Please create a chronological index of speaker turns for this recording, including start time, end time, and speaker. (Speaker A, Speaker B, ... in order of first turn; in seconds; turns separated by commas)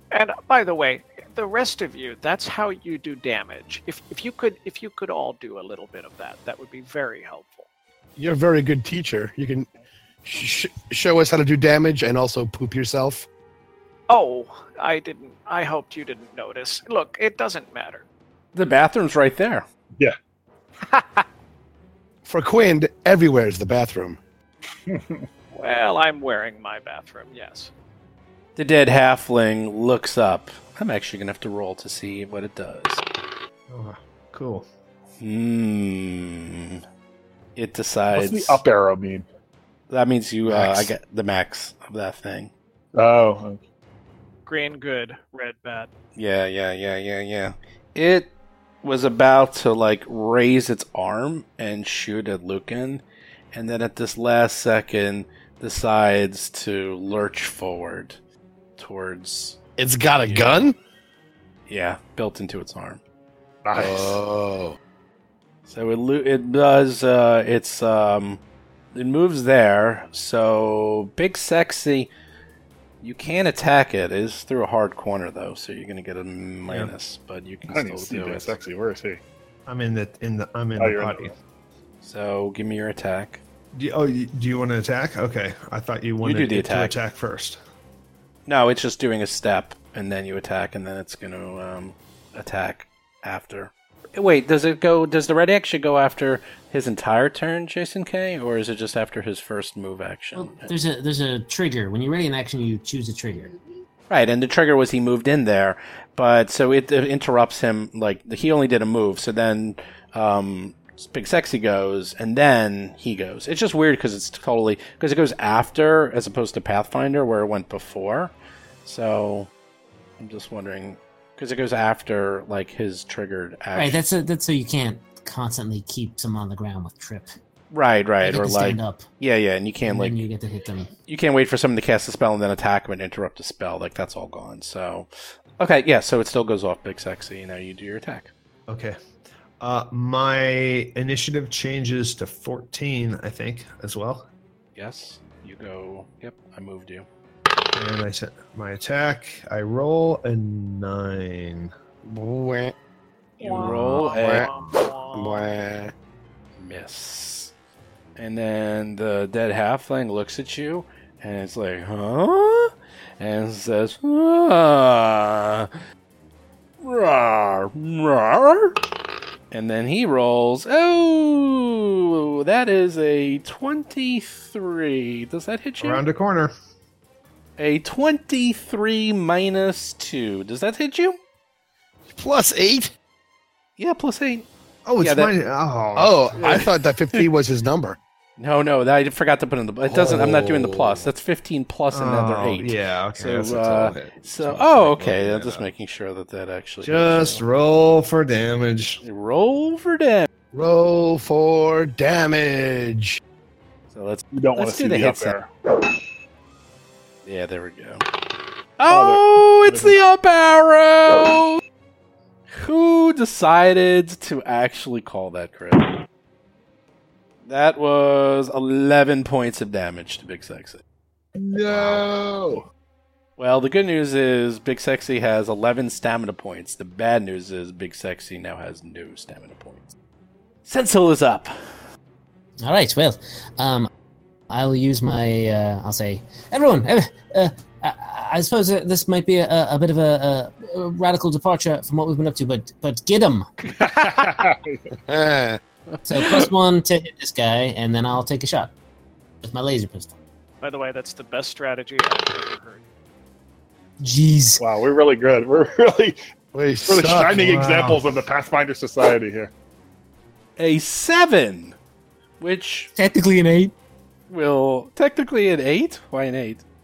Speaker A: 0.1-7.7, Speaker B: 8.2-9.7, Speaker B: 10.2-13.3, Speaker A: 14.1-18.0, Speaker C: 18.5-19.7, Speaker B: 22.2-24.2, Speaker D: 24.9-25.2, Speaker A: 25.5-27.7, Speaker C: 28.6-33.0, Speaker E: 33.7-34.7, Speaker C: 35.2-36.8, Speaker C: 37.6-38.6, Speaker D: 38.1-39.3, Speaker C: 39.9-42.5, Speaker D: 40.5-40.9, Speaker D: 42.9-43.6, Speaker A: 44.5-45.9, Speaker C: 46.2-48.3, Speaker C: 48.8-58.2, Speaker C: 58.8-59.6, Speaker B: 59.8-60.8, Speaker C: 60.2-60.7, Speaker C: 61.7-63.0, Speaker D: 63.6-64.2, Speaker B: 63.7-64.8, Speaker C: 65.7-68.4, Speaker C: 68.9-72.1, Speaker C: 73.0-78.5, Speaker E: 76.7-76.9, Speaker D: 77.7-79.2, Speaker E: 79.7-81.3, Speaker D: 80.8-81.3, Speaker C: 82.0-83.4, Speaker E: 83.7-87.6, Speaker C: 86.2-87.0, Speaker C: 88.5-100.7, Speaker F: 100.3-103.5, Speaker C: 104.1-118.3, Speaker C: 118.8-119.5, Speaker C: 120.2-124.0, Speaker F: 123.8-127.3, Speaker C: 127.7-130.2, Speaker F: 128.2-129.1, Speaker F: 129.8-130.9, Speaker C: 131.1-138.3, Speaker E: 138.7-139.0, Speaker E: 139.6-144.3, Speaker C: 144.8-147.1, Speaker E: 147.7-151.7, Speaker B: 152.0-152.7, Speaker A: 153.4-155.5, Speaker C: 153.4-154.5, Speaker B: 153.4-155.9, Speaker C: 156.6-157.5, Speaker C: 158.2-165.7, Speaker C: 166.8-168.8, Speaker C: 169.5-176.1, Speaker E: 175.8-176.5, Speaker C: 177.6-181.2, Speaker B: 182.1-182.9, Speaker C: 183.8-184.5, Speaker E: 184.8-186.6, Speaker C: 185.0-185.3, Speaker B: 186.0-188.0, Speaker C: 188.4-197.4, Speaker B: 189.9-191.1, Speaker E: 191.9-195.7, Speaker E: 196.8-199.0, Speaker C: 199.0-200.3, Speaker B: 200.5-203.2, Speaker C: 203.9-205.4, Speaker D: 204.3-205.5, Speaker C: 207.2-208.1, Speaker C: 208.8-211.6, Speaker D: 208.9-210.0, Speaker C: 212.5-216.0, Speaker C: 217.4-220.8, Speaker D: 221.4-222.6, Speaker C: 223.4-229.9, Speaker C: 230.7-231.5, Speaker F: 232.6-233.9, Speaker F: 234.5-243.5, Speaker D: 243.8-244.9, Speaker B: 245.1-245.6, Speaker F: 246.1-248.7, Speaker F: 249.4-250.2, Speaker A: 250.6-252.8, Speaker F: 254.0-254.6, Speaker D: 254.6-256.2, Speaker B: 256.5-257.4, Speaker D: 256.9-259.5, Speaker E: 256.9-258.0, Speaker C: 260.6-261.8, Speaker C: 262.4-262.9, Speaker F: 262.9-263.7, Speaker C: 264.3-266.6